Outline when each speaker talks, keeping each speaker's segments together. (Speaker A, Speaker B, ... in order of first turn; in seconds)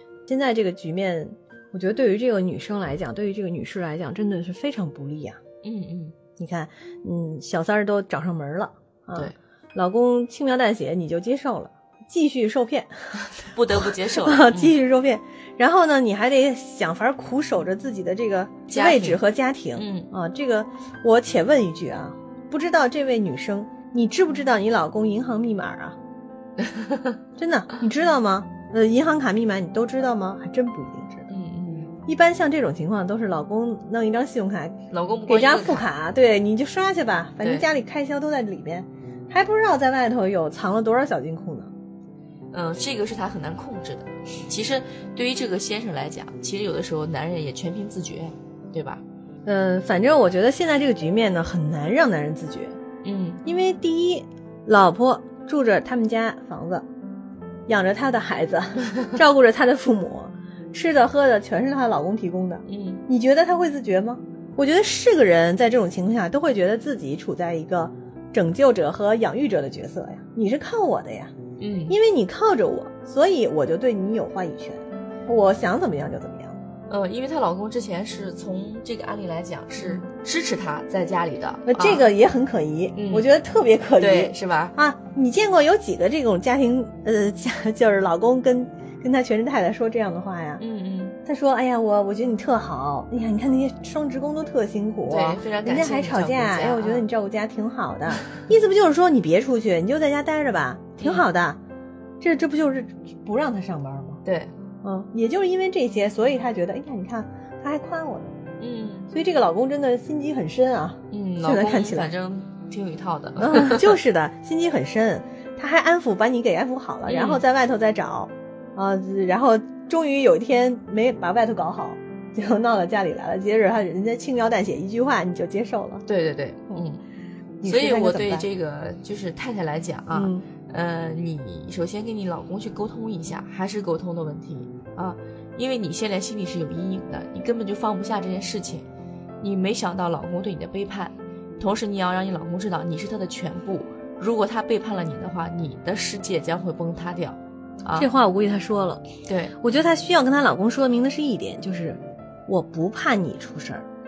Speaker A: 0.3-5.4, 6.4-26.0, 27.4-31.3, 32.0-41.7, 49.5-52.8, 53.5-56.9, 57.7-71.3, 71.9-76.6, 79.8-80.0, 81.7-90.6, 91.2-101.6, 102.2-104.2, 104.8-108.4, 109.1-112.1, 113.4-126.0, 127.6-128.5, 130.1-130.5, 147.9-149.1, 149.6-153.9
Speaker B: 5.6-6.1, 13.4-14.7, 18.7-19.2, 19.8-20.1, 26.6-27.1, 31.3-31.9, 34.9-35.9, 42.5-49.0, 53.0-53.4, 62.7-63.0, 71.6-72.0, 76.9-82.1, 83.0-83.3, 84.0-84.8, 90.6-91.2, 95.0-97.1, 101.0-101.3, 104.2-104.5, 108.6-109.1, 111.1-114.0, 117.1-117.4, 126.1-127.0, 127.6-138.9, 139.4-148.1, 149.3-149.6